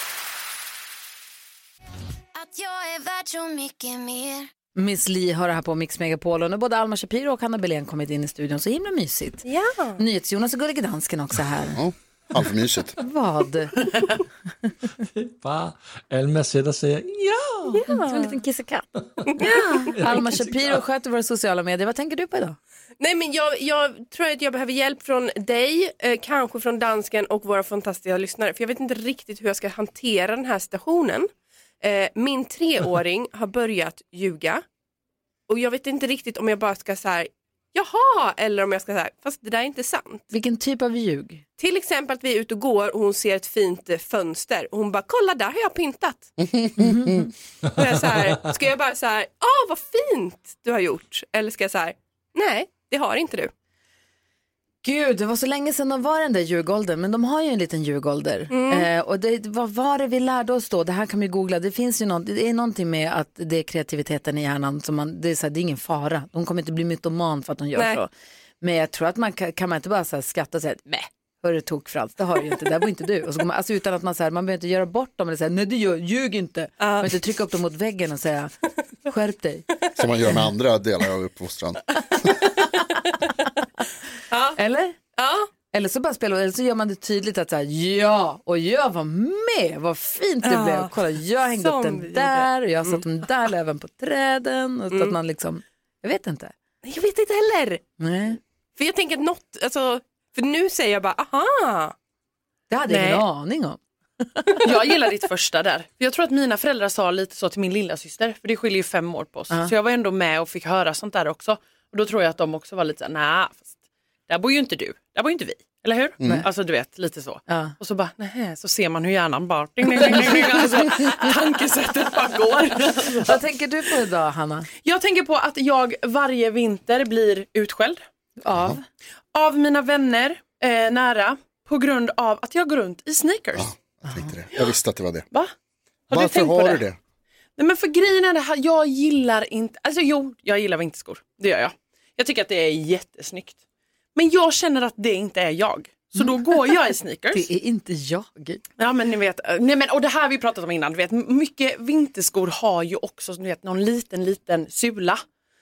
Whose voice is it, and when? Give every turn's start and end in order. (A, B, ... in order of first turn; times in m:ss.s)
0:02.3-0:04.5 A
0:04.8-0:09.4 B
0:09.4-0:10.0 C
0:10.0-0:11.8 B
0:11.7-0:12.9 D
0:13.0-0:14.1 B
0:15.2-0:17.8 E
0:17.7-0:18.8 B
0:17.7-0:18.4 C
0:19.4-0:22.6 B
0:19.9-0:20.3 E
0:23.0-0:31.3 C
0:31.8-0:34.6 C
0:35.5-0:40.2 C
0:40.3-0:41.4 B
0:41.6-0:46.3 C
0:46.4-0:47.3 D
0:46.8-0:47.3 B
0:47.8-0:53.5 C
0:54.8-1:08.1 B
0:58.5-0:58.9 C
1:07.8-1:08.0 C
1:08.6-1:18.5 B
1:16.8-1:17.1 C
1:19.0-1:19.6 B
1:20.0-1:22.3 D
1:24.3-1:24.6 C
1:24.6-1:25.0 B
1:25.2-1:25.5 C
1:25.7-1:36.5 B
1:30.4-1:30.9 C
1:31.5-1:33.0 C
1:36.8-1:37.8 C
1:38.0-1:38.4 B
1:38.8-1:41.9 C
1:42.7-1:44.6 B
1:42.9-1:43.2 F
1:44.6-1:53.7 F
1:54.3-2:03.3 F
1:56.2-1:56.4 D
1:57.5-1:57.7 B
2:03.1-2:04.7 B
2:04.8-2:08.0 F
2:08.4-2:08.8 B
2:09.3-2:13.7 F
2:13.5-2:15.3 D
2:16.1-2:16.8 F
2:16.1-2:17.0 D
2:17.6-2:23.6 F
2:24.2-2:27.5 F
2:27.3-2:28.6 B
2:28.8-2:35.2 F